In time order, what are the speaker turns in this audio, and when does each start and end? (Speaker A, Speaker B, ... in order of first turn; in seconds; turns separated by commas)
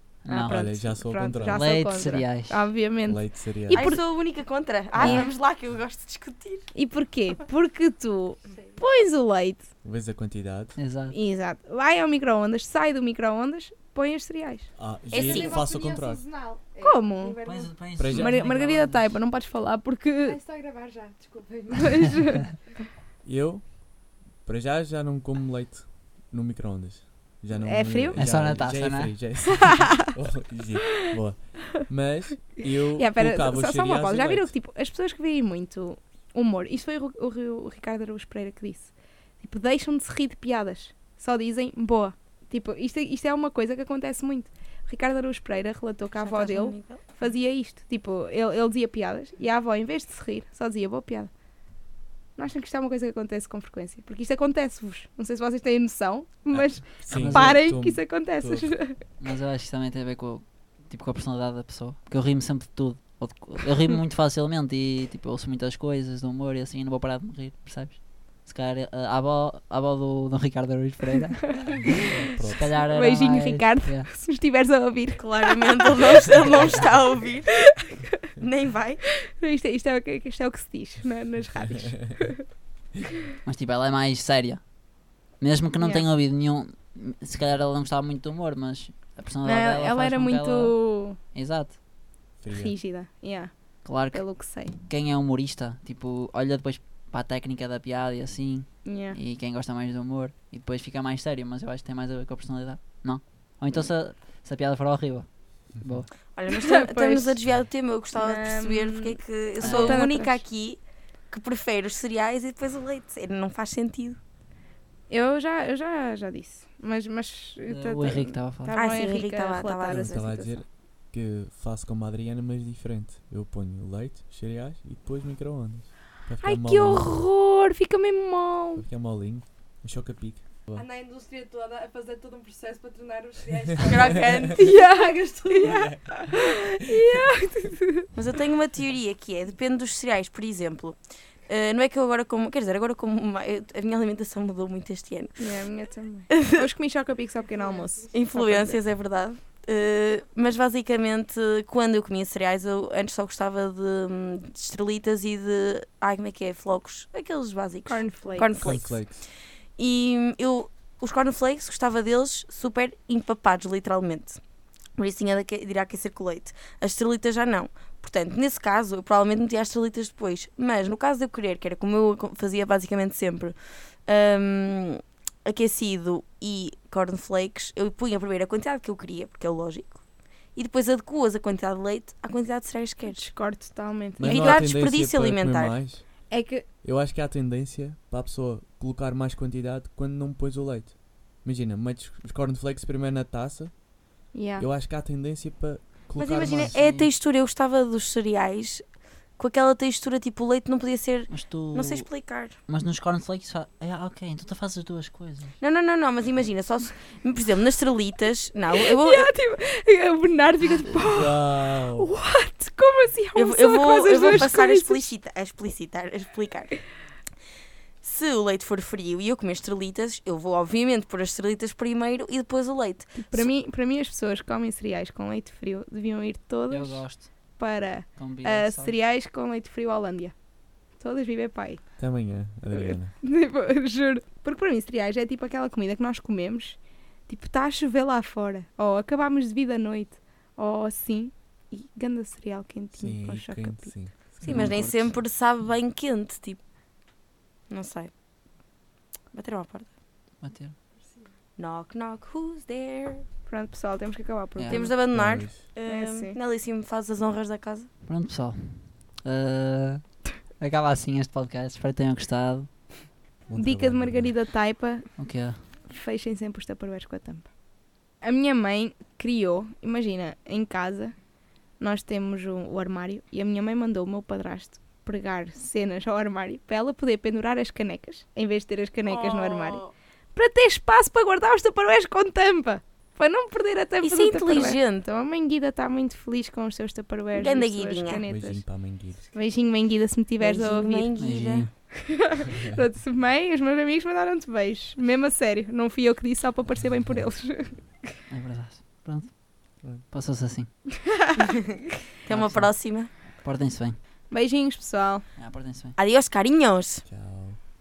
Speaker A: 0.2-0.6, Speaker B: 0.3-4.0, Speaker C: 0.4-1.6, Speaker A: 1.4-2.7, Speaker C: 3.0-3.9, Speaker D: 3.7-6.7, Speaker A: 5.0-5.3, Speaker B: 5.0-5.3, Speaker B: 6.7-9.7, Speaker E: 8.5-8.8, Speaker C: 9.8-10.8, Speaker A: 10.8-11.2, Speaker B: 11.1-14.7, Speaker C: 14.8-16.3, Speaker D: 15.1-15.6, Speaker E: 15.1-17.9, Speaker B: 16.8-20.4, Speaker A: 17.4-19.1, Speaker C: 17.9-18.5, Speaker E: 20.2-22.5, Speaker B: 21.8-22.4, Speaker C: 23.2-34.5, Speaker B: 27.6-28.3, Speaker A: 28.2-29.2, Speaker B: 33.0-51.3, Speaker D: 46.2-47.0, Speaker B: 52.4-59.0, Speaker C: 56.5-58.8, Speaker A: 57.1-57.6, Speaker A: 59.2-74.1, Speaker B: 71.6-71.9, Speaker C: 71.8-72.8, Speaker B: 72.7-76.3, Speaker D: 75.2-77.7, Speaker B: 77.5-78.0, Speaker D: 78.4-79.0, Speaker B: 79.1-82.4, Speaker A: 83.4-84.7, Speaker A: 85.3-91.8, Speaker B: 85.8-86.0, Speaker B: 89.4-91.2, Speaker C: 92.4-92.7, Speaker B: 92.5-94.7, Speaker A: 93.8-106.1, Speaker B: 98.8-99.2, Speaker D: 106.3-114.2, Speaker B: 106.5-107.4, Speaker B: 108.1-110.4, Speaker A: 109.6-110.0, Speaker B: 115.1-120.6, Speaker A: 117.7-118.8, Speaker D: 118.7-120.2, Speaker C: 119.9-127.2, Speaker B: 126.4-128.8, Speaker C: 128.8-130.9, Speaker E: 130.7-135.8, Speaker D: 133.8-134.6, Speaker B: 134.6-138.1, Speaker C: 135.6-136.1, Speaker D: 138.1-145.5, Speaker B: 145.4-148.8, Speaker D: 146.3-146.7, Speaker E: 147.5-147.9, Speaker D: 148.1-159.2, Speaker B: 157.8-158.7, Speaker C: 158.6-159.2, Speaker D: 159.8-164.4, Speaker D: 165.0-173.5, Speaker D: 174.1-180.0, Speaker D: 180.5-183.3, Speaker B: 183.1-184.7, Speaker C: 184.2-186.1, Speaker D: 184.2-185.8, Speaker B: 186.3-186.7, Speaker C: 186.8-193.8, Speaker B: 194.3-194.7, Speaker C: 194.6-196.8, Speaker D: 196.2-198.8, Speaker A: 196.4-197.1, Speaker D: 199.4-202.6, Speaker A: 201.3-202.1, Speaker A: 202.7-205.6, Speaker D: 205.6-209.3, Speaker B: 208.7-215.1, Speaker C: 211.1-212.1, Speaker D: 213.3-216.9, Speaker D: 218.0-223.5, Speaker B: 223.2-230.3, Speaker A: 226.7-227.3, Speaker A: 228.2-228.9, Speaker B: 231.0-231.9, Speaker C: 232.0-233.1, Speaker B: 232.7-243.9, Speaker C: 242.9-245.2, Speaker D: 244.4-246.6, Speaker D: 247.7-248.1, Speaker D: 249.3-249.9, Speaker A: 250.4-250.7, Speaker E: 251.0-251.3, Speaker D: 251.6-253.2, Speaker B: 253.5-254.9, Speaker A: 254.6-254.9, Speaker D: 254.7-257.9, Speaker C: 255.1-255.6, Speaker B: 255.8-256.4, Speaker A: 258.1-262.7, Speaker C: 263.5-264.3, Speaker B: 263.6-265.1, Speaker A: 265.2-265.6, Speaker B: 265.8-267.5, Speaker B: 268.2-271.1, Speaker B: 271.8-279.8, Speaker D: 279.1-279.9, Speaker B: 280.3-288.6, Speaker D: 284.0-285.0, Speaker D: 287.3-288.2, Speaker C: 288.2-289.3, Speaker B: 289.3-291.1, Speaker D: 290.4-291.7, Speaker A: 291.2-291.7, Speaker B: 291.9-297.9, Speaker A: 298.3-299.4, Speaker A: 300.1-300.7, Speaker D: 302.2-303.1, Speaker A: 302.3-304.0, Speaker B: 304.3-305.2, Speaker A: 305.4-306.0, Speaker D: 306.0-307.0, Speaker C: 307.1-307.6